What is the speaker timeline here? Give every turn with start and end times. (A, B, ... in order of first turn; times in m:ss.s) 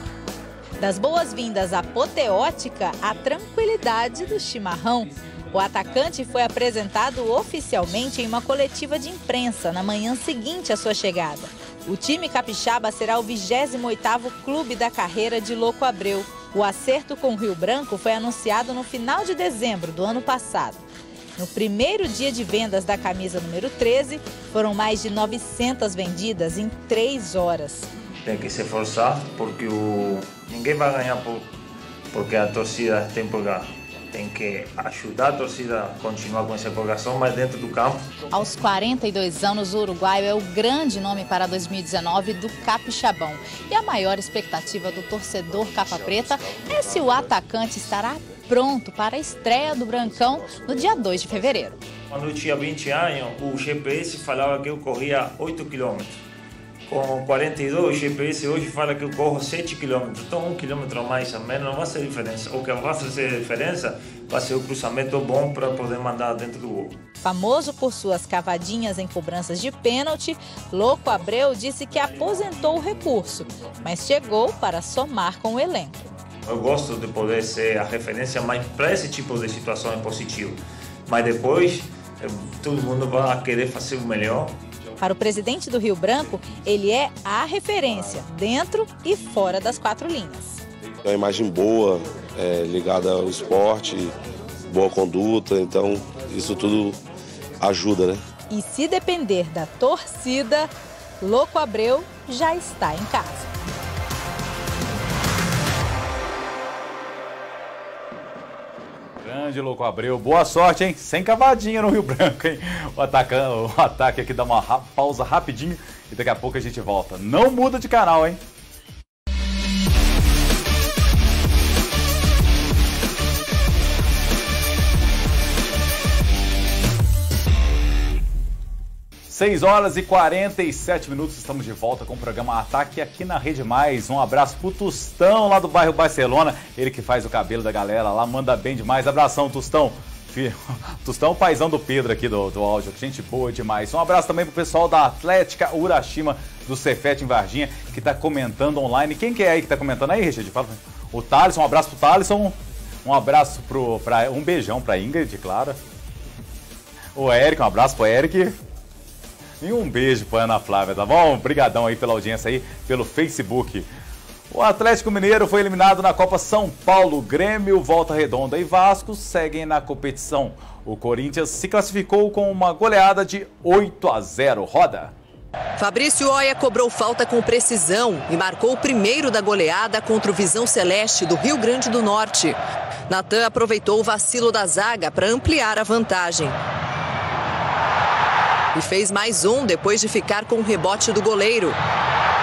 0:00.8-0:20.8 A
0:21.4-0:27.9 A
0:28.2-0:31.5 B
0:32.1-0:38.0 B
0:38.3-0:51.8 A
0:52.1-0:56.2 B
0:56.9-1:06.9 B
1:07.2-1:16.0 A
1:16.4-1:24.5 B
1:25.0-1:30.6 A
1:31.0-1:34.1 C
1:34.7-1:37.0 C
1:37.6-1:38.2 C
1:38.5-1:40.7 A
1:41.2-1:43.4 A
1:49.2-1:58.4 D
2:09.3-2:35.8 D
2:37.1-2:38.6 D
2:39.6-2:43.9 D
2:44.5-2:55.1 D
2:55.8-3:02.6 E
3:03.1-3:06.6 E
3:08.7-3:11.8 E